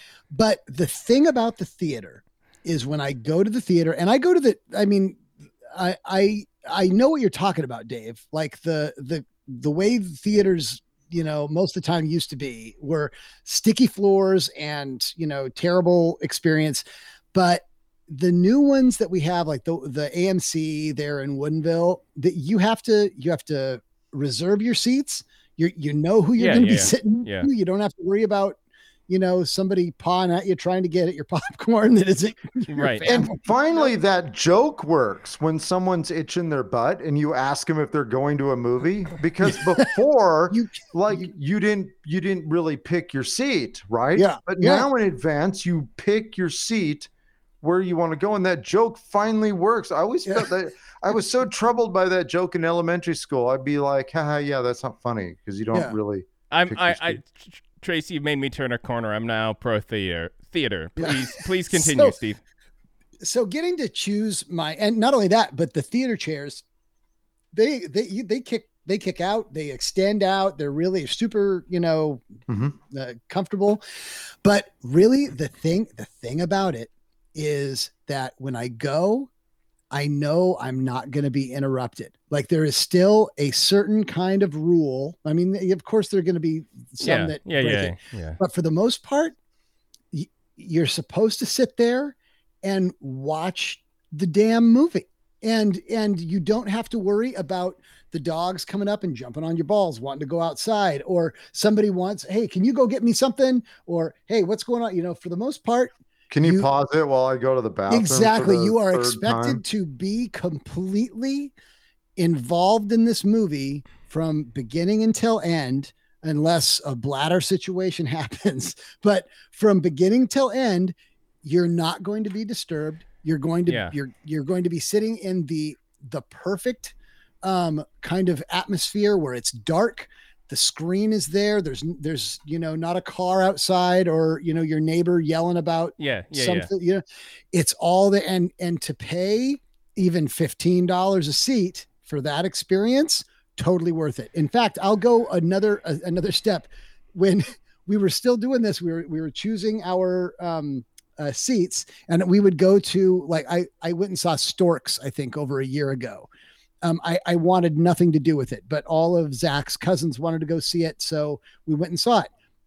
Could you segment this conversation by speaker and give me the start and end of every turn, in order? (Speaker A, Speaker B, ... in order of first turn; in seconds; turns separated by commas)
Speaker A: 0.3-33.9, Speaker B: 26.4-27.5, Speaker B: 32.7-33.1, Speaker C: 33.0-47.1, Speaker A: 39.5-39.9, Speaker A: 40.5-41.3, Speaker A: 44.1-44.9, Speaker C: 47.6-57.2, Speaker B: 56.5-62.4, Speaker A: 61.7-62.1, Speaker A: 63.2-66.6, Speaker A: 67.5-72.2, Speaker C: 72.5-72.8, Speaker A: 72.8-73.8, Speaker A: 74.4-79.3, Speaker A: 79.9-89.3, Speaker B: 87.0-88.4, Speaker A: 90.1-106.7, Speaker C: 106.3-109.6, Speaker A: 107.9-111.5, Speaker A: 112.2-156.3, Speaker B: 123.7-123.9, Speaker B: 136.0-136.7, Speaker A: 156.8-162.3